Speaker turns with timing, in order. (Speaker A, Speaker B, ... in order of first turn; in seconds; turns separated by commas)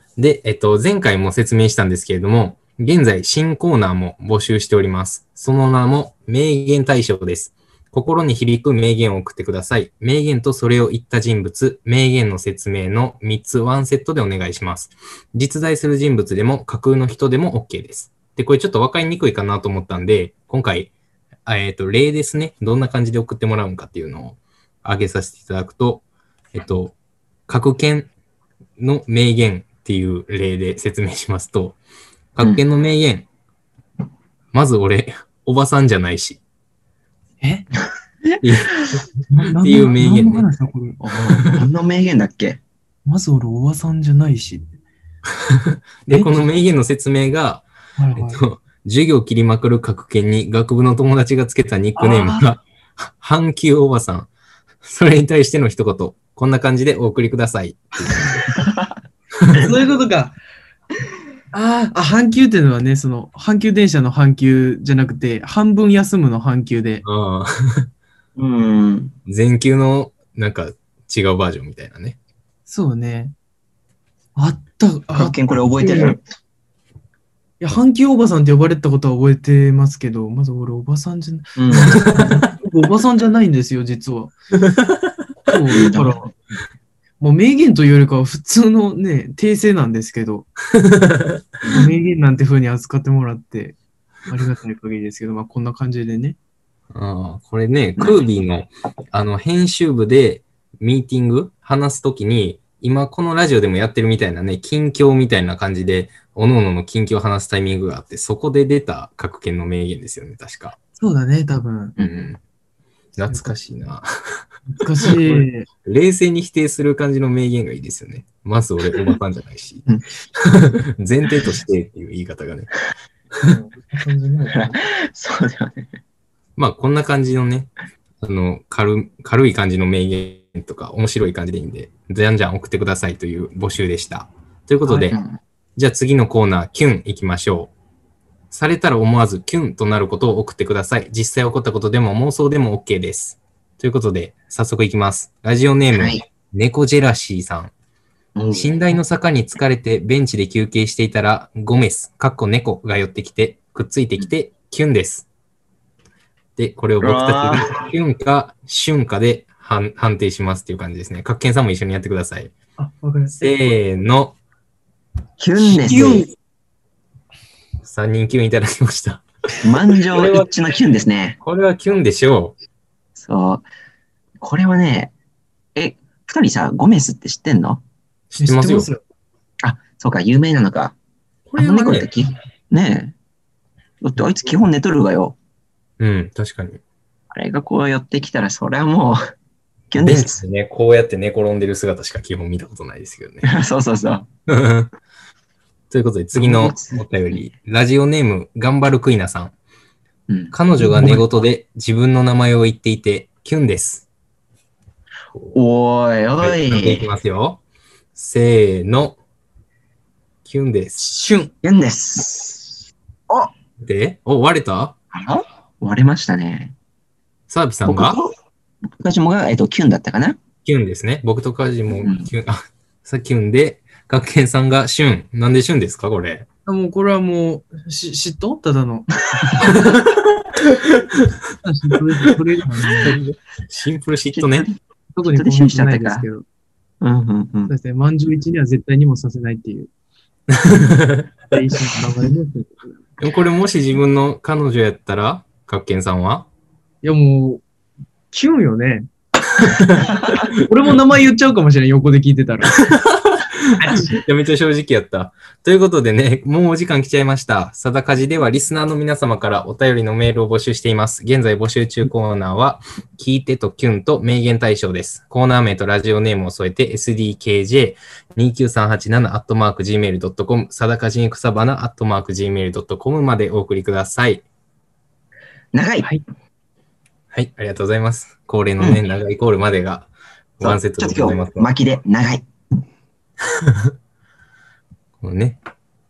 Speaker A: 0.2-20.9, Speaker A: 21.4-26.9, Speaker A: 27.5-28.1, Speaker A: 28.8-31.8, Speaker A: 32.4-33.2, Speaker A: 34.5-36.4, Speaker B: 37.4-37.7, Speaker A: 38.4-40.5, Speaker B: 39.3-41.6, Speaker C: 41.0-42.6, Speaker B: 43.1-44.7, Speaker A: 45.5-54.3, Speaker B: 46.1-46.5, Speaker B: 48.0-48.4, Speaker B: 52.0-52.5, Speaker A: 54.8-58.5, Speaker C: 58.6-58.9, Speaker A: 59.4-59.7, Speaker B: 59.5-60.4, Speaker B: 61.5-67.0, Speaker A: 67.0-67.9, Speaker C: 68.4-69.1, Speaker A: 69.2-72.2, Speaker B: 72.7-73.3, Speaker B: 74.4-76.2, Speaker C: 75.1-76.2, Speaker B: 77.6-84.4, Speaker C: 81.6-82.1, Speaker B: 85.5-86.3, Speaker C: 85.7-86.3, Speaker B: 87.2-90.5, Speaker A: 90.8-91.4, Speaker B: 91.7-93.8, Speaker B: 94.3-96.4, Speaker A: 96.9-110.8, Speaker B: 111.0-112.0, Speaker C: 112.0-112.3, Speaker A: 112.0-112.4, Speaker A: 113.2-114.4, Speaker B: 114.7-115.7, Speaker A: 115.0-119.9, Speaker A: 120.4-122.7, Speaker B: 123.4-124.8, Speaker C: 124.5-125.9, Speaker A: 126.6-135.2, Speaker B: 134.8-135.1, Speaker C: 135.1-135.4, Speaker A: 135.8-137.7, Speaker A: 138.5-147.7, Speaker C: 145.9-146.2, Speaker C: 148.3-148.8, Speaker A: 148.5-155.3, Speaker A: 156.6-162.5, Speaker C: 157.0-157.9, Speaker B: 162.8-163.4, Speaker A: 163.3-164.4, Speaker C: 165.4-166.2, Speaker B: 165.6-166.3, Speaker A: 165.7-166.3, Speaker A: 167.8-169.2, Speaker C: 169.6-171.4, Speaker A: 170.1-170.5, Speaker A: 171.4-172.5, Speaker C: 173.2-173.7, Speaker C: 174.4-175.1, Speaker C: 175.7-177.8, Speaker A: 178.3-178.9, Speaker B: 178.4-179.0, Speaker C: 179.6-180.9, Speaker A: 181.5-182.1, Speaker C: 181.6-183.1, Speaker C: 184.0-185.4, Speaker A: 186.0-186.8, Speaker C: 187.3-189.2, Speaker C: 189.9-190.4, Speaker A: 190.0-193.5, Speaker C: 193.4-194.3, Speaker A: 194.5-194.9, Speaker A: 195.9-199.5, Speaker C: 196.3-197.4, Speaker C: 200.3-201.2, Speaker A: 200.5-204.1, Speaker B: 200.8-201.1, Speaker C: 205.5-207.0, Speaker A: 206.4-207.6, Speaker A: 208.2-209.2, Speaker A: 210.4-211.1, Speaker C: 211.5-213.5, Speaker A: 213.8-214.9, Speaker C: 215.1-216.7, Speaker A: 217.5-218.2, Speaker C: 217.9-218.3, Speaker C: 219.0-220.4, Speaker A: 220.6-226.5, Speaker C: 221.9-222.3, Speaker B: 226.7-229.9, Speaker C: 229.4-229.8, Speaker B: 231.6-233.2, Speaker A: 233.0-234.7, Speaker C: 234.3-234.7, Speaker B: 235.1-236.4, Speaker C: 235.2-236.2, Speaker C: 237.0-237.7, Speaker B: 237.7-239.9, Speaker A: 240.5-241.3, Speaker B: 241.5-242.9, Speaker A: 243.2-246.5, Speaker B: 247.0-247.6, Speaker B: 248.3-249.1, Speaker A: 249.7-250.1, Speaker B: 250.5-252.8, Speaker A: 252.7-274.4, Speaker B: 253.8-254.2, Speaker C: 275.7-276.1, Speaker A: 277.3-281.7, Speaker C: 280.6-282.5, Speaker A: 283.6-283.9, Speaker A: 285.2-285.6